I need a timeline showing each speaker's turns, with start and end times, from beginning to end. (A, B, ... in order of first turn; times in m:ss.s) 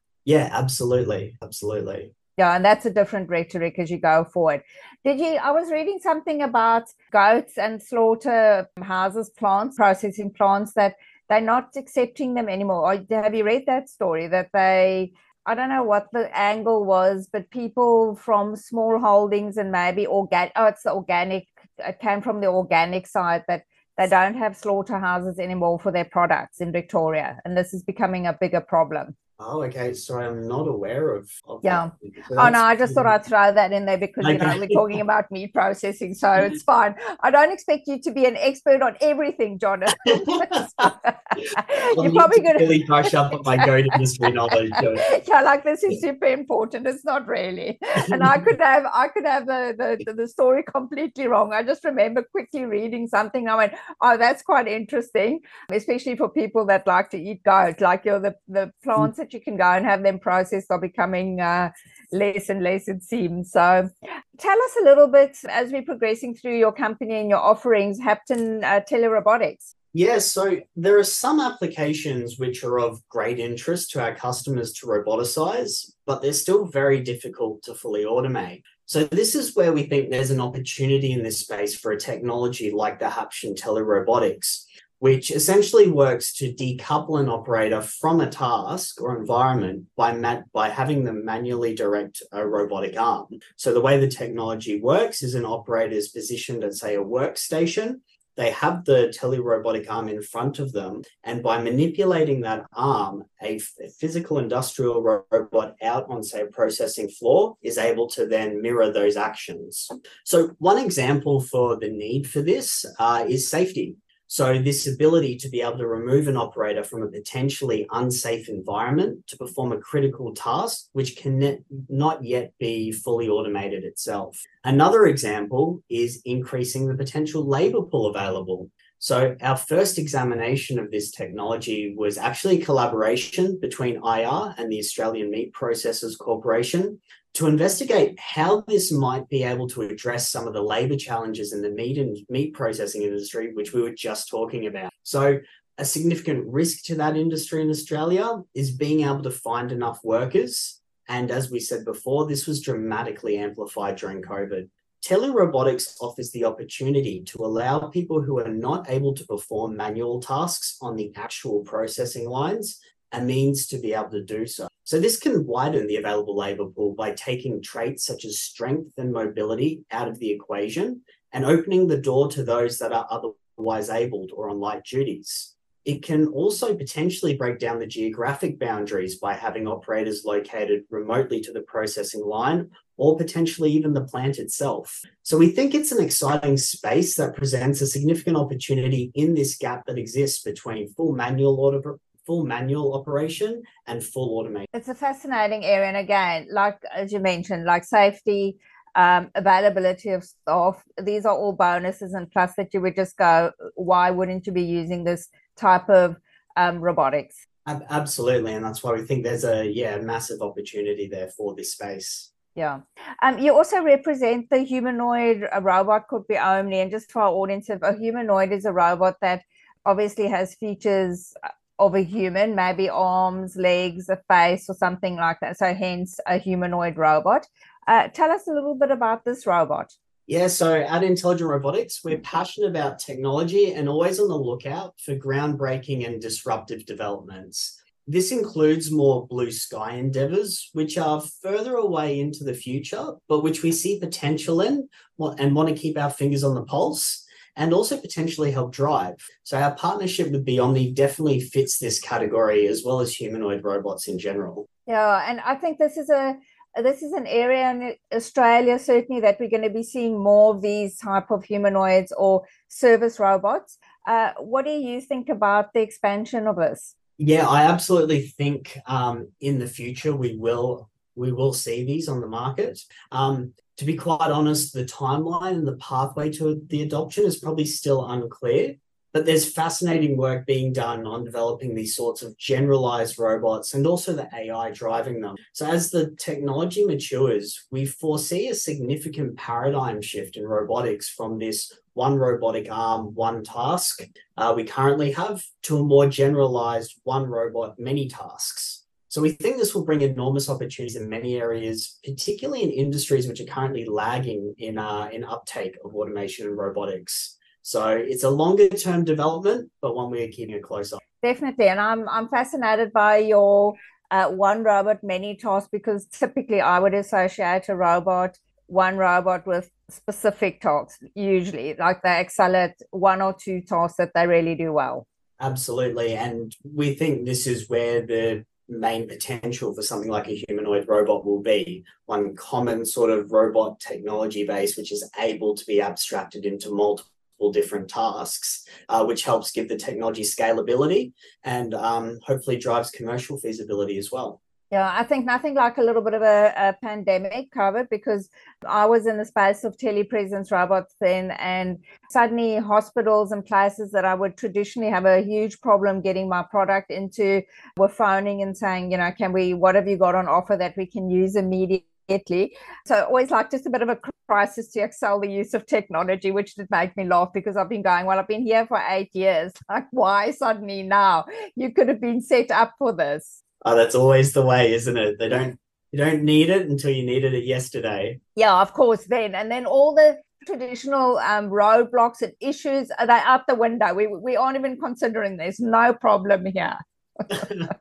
0:00.2-0:02.1 A
0:02.4-0:29.1 B
0:29.4-0:33.1 A
0:31.6-0:43.7 B
0:34.2-0:35.0 A
0:40.1-0:40.9 A
0:41.9-0:45.1 A
0:44.7-1:09.7 B
0:48.1-0:48.4 A
1:09.9-3:14.6 A
3:14.7-3:27.4 B
3:27.6-3:32.3 A
3:32.6-3:49.9 B
3:50.3-4:14.7 A
4:14.9-4:26.9 B
4:27.2-5:11.0 A
5:11.2-5:25.0 B
5:25.4-5:44.4 A
5:44.7-6:13.4 B
6:13.6-6:18.2 A
6:18.4-6:27.7 B